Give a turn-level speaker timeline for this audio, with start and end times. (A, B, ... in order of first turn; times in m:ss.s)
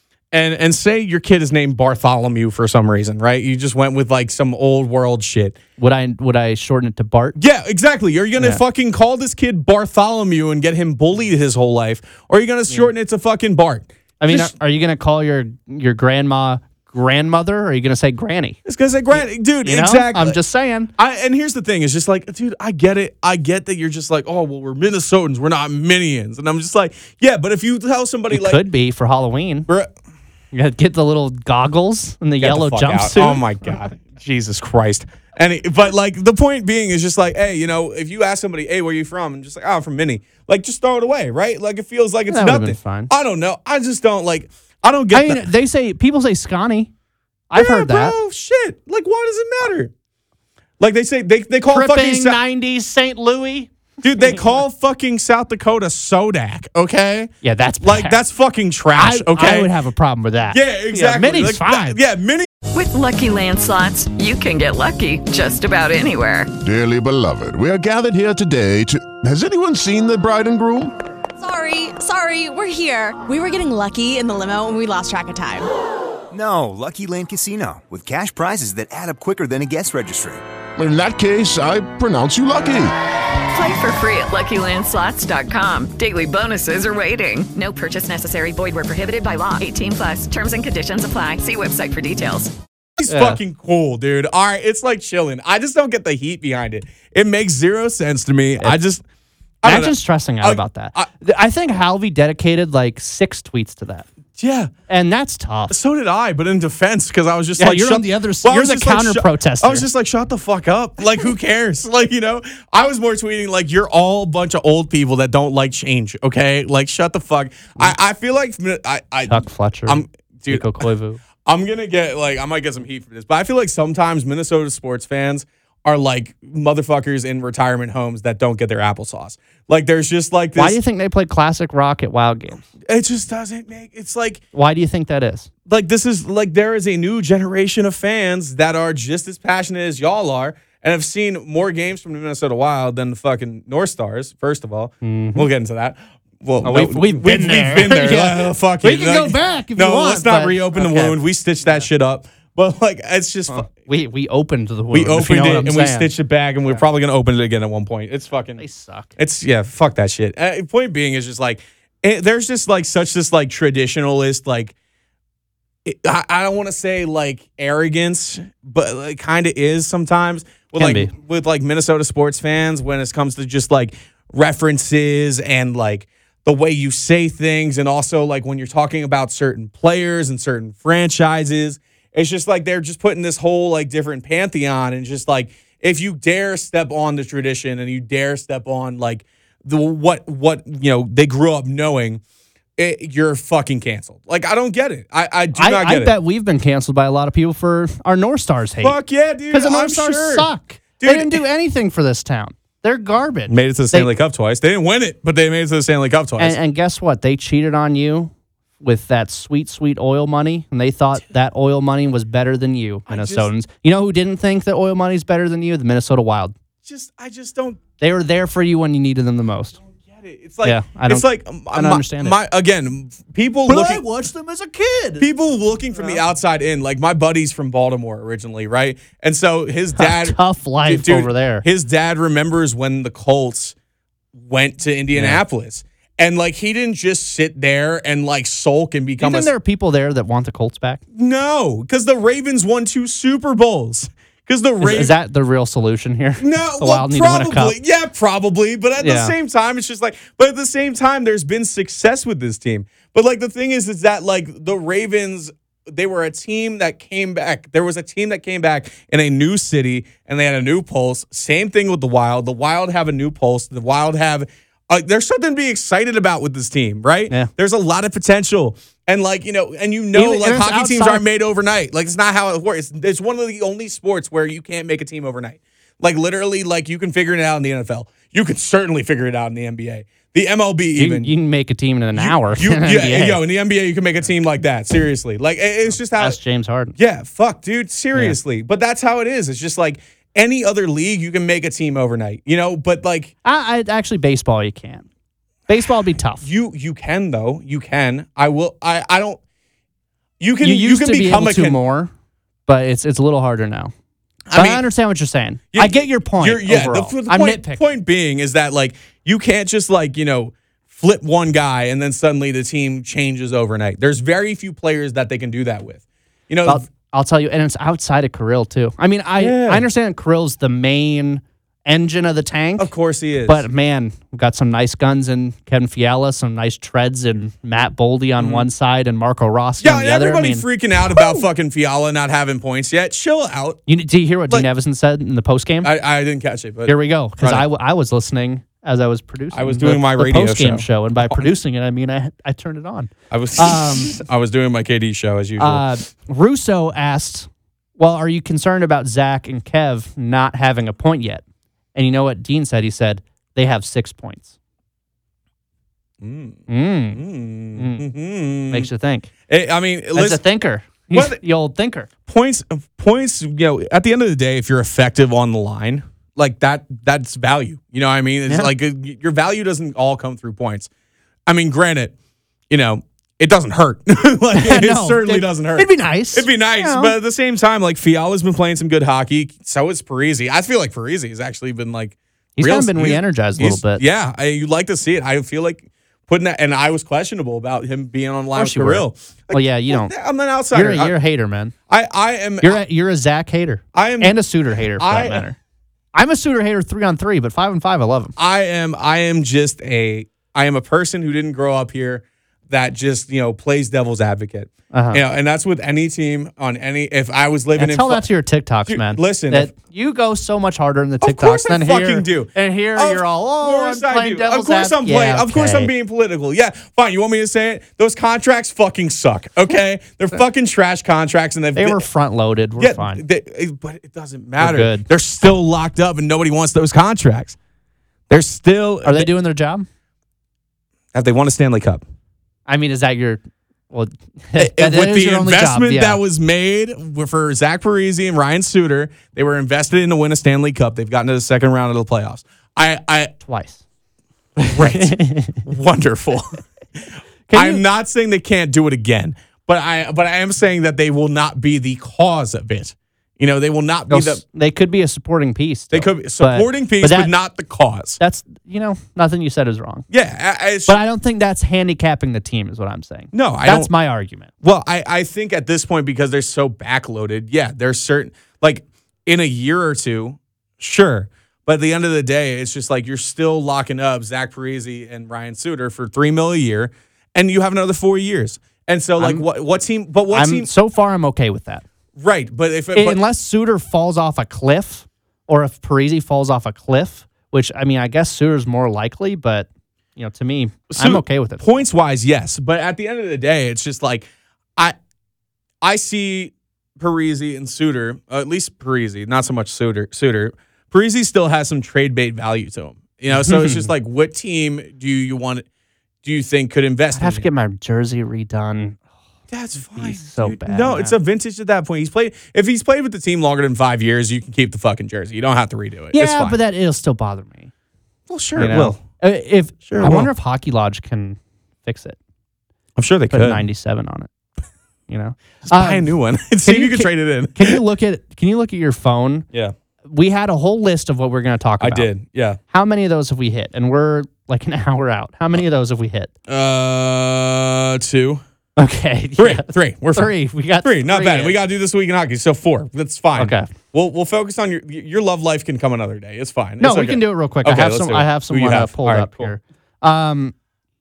0:00.3-0:05.6 A
0:05.8-0:07.4 B
0:07.4-0:14.5 A
0:14.2-0:18.6 B
0:18.7-0:20.4 A
0:19.2-0:20.9 B
0:21.0-0:28.6 A
0:28.3-0:29.7 B
0:30.5-0:33.4 B
0:32.4-0:45.4 A
0:42.3-0:43.1 B
0:45.1-0:46.9 B
0:47.5-0:48.2 B
0:47.5-0:49.9 A
0:50.8-0:52.4 A
0:51.7-0:53.7 B
0:54.0-0:59.7 A
0:57.4-0:58.2 B
0:59.0-1:02.0 B
1:00.5-1:02.5 A
1:02.7-1:06.5 C
1:06.6-1:10.9 D
1:11.4-1:15.7 E
1:16.3-1:20.4 F
1:20.8-1:22.9 D
1:23.5-1:32.5 C
1:33.0-1:39.0 A
1:33.1-1:33.4 B
1:39.6-1:41.1 A
1:39.6-1:44.1 B
1:44.4-1:44.7 A
1:44.9-1:45.8 B
1:45.7-2:00.9 A
1:47.6-1:49.9 B
1:59.3-2:01.2 B
2:01.4-2:10.8 A
2:10.6-2:12.7 B
2:12.9-2:14.4 A
2:14.5-2:15.5 B
2:15.7-2:33.7 A
2:25.0-2:25.5 B
2:26.6-2:31.9 B
2:33.5-2:36.1 B
2:34.9-2:38.6 A
2:38.6-2:39.1 B
2:39.2-2:44.7 A
2:45.8-3:12.2 A
2:50.8-2:51.1 B
3:12.8-3:16.1 A
3:15.6-3:19.0 B
3:18.8-3:21.4 A
3:19.5-3:24.1 B
3:23.5-3:26.6 A
3:26.4-3:36.5 B
3:33.1-3:33.5 A
3:36.8-3:37.8 A
3:38.0-3:39.8 B
3:39.9-3:44.0 A
3:40.6-3:42.4 B
3:43.7-3:45.3 B
3:45.2-3:53.8 A
3:45.9-3:46.2 B
3:50.0-3:51.6 B
3:54.4-3:59.5 A
3:55.1-3:55.4 B
3:59.2-4:01.0 B
4:01.1-4:05.1 A
4:04.8-4:07.8 B
4:06.4-4:41.3 A
4:09.0-4:09.4 B
4:30.1-4:31.2 B
4:41.0-4:43.4 B
4:42.2-4:46.4 A
4:46.1-4:47.0 B
4:47.0-4:53.3 A
4:53.4-4:55.1 B
4:55.7-4:56.4 B
4:56.4-4:59.4 A
5:00.4-5:01.8 A
5:00.6-5:02.1 B
5:02.7-5:03.9 B
5:04.5-5:04.8 A
5:04.5-5:07.8 B
5:05.7-5:16.8 A
5:16.6-5:22.9 B
5:19.4-5:19.9 A
5:22.8-5:23.7 A
5:23.4-5:31.4 B
5:28.4-5:28.7 A
5:29.8-5:33.8 A
5:33.9-5:35.9 B
5:35.8-5:37.6 A
5:36.9-5:44.2 B
5:39.5-5:41.5 A
5:43.3-5:45.9 A
5:45.6-5:51.4 B
5:52.0-5:54.5 B
5:56.2-5:58.9 A
5:56.7-5:57.2 B
5:57.8-5:58.1 B
5:58.7-5:59.3 B
5:59.5-6:00.4 A
6:00.2-6:02.1 B
6:01.1-6:01.4 A
6:02.3-6:10.9 A
6:11.5-6:12.1 A
6:12.7-6:31.2 A
6:14.5-6:17.2 B
6:22.6-6:24.0 B
6:28.6-6:30.1 B
6:30.7-6:31.7 B
6:31.9-6:32.8 A
6:32.6-6:35.6 B
6:33.9-6:34.4 A
6:35.0-6:35.5 A
6:36.1-6:38.4 B
6:38.4-6:48.2 A
6:44.9-6:45.2 B
6:47.8-6:55.9 B
6:48.9-6:49.7 A
6:51.2-7:02.0 A
7:01.8-7:03.2 B
7:02.8-7:07.6 A
7:04.6-7:05.1 B
7:08.3-7:09.3 A
7:09.0-7:09.9 B
7:11.1-7:12.0 A
7:12.7-7:16.2 B
7:14.6-7:23.4 A
7:23.4-7:23.8 B
7:24.6-7:25.6 B
7:24.7-7:26.6 A
7:27.5-7:27.8 B
7:27.5-7:34.4 A
7:34.1-7:37.3 B
7:35.9-7:38.2 A
7:38.2-7:40.1 B
7:40.1-7:41.0 A
7:40.9-7:44.5 B
7:43.3-7:43.9 A
7:44.6-8:00.7 A
7:59.2-7:59.4 B
8:00.3-8:01.8 B
8:02.2-8:03.2 A
8:03.0-8:11.8 B
8:10.9-8:15.0 A
8:15.8-8:25.6 A
8:23.3-8:23.9 B
8:26.2-8:27.5 A
8:27.1-8:29.0 B
8:29.5-8:36.6 A
8:30.0-8:31.2 B
8:36.1-8:37.7 B
8:38.3-8:39.0 A
8:38.6-8:42.2 B
8:39.9-8:40.3 A
8:43.0-8:43.6 A
8:43.3-8:44.3 B
8:45.1-8:46.1 B
8:45.7-8:47.8 A
8:46.6-8:49.5 B
8:50.1-8:52.1 B
8:51.8-8:52.6 A
8:52.7-8:56.3 B
8:56.5-8:58.4 A
8:58.8-9:01.6 B
8:59.4-9:09.5 A
9:03.4-9:03.7 B
9:06.8-9:10.5 B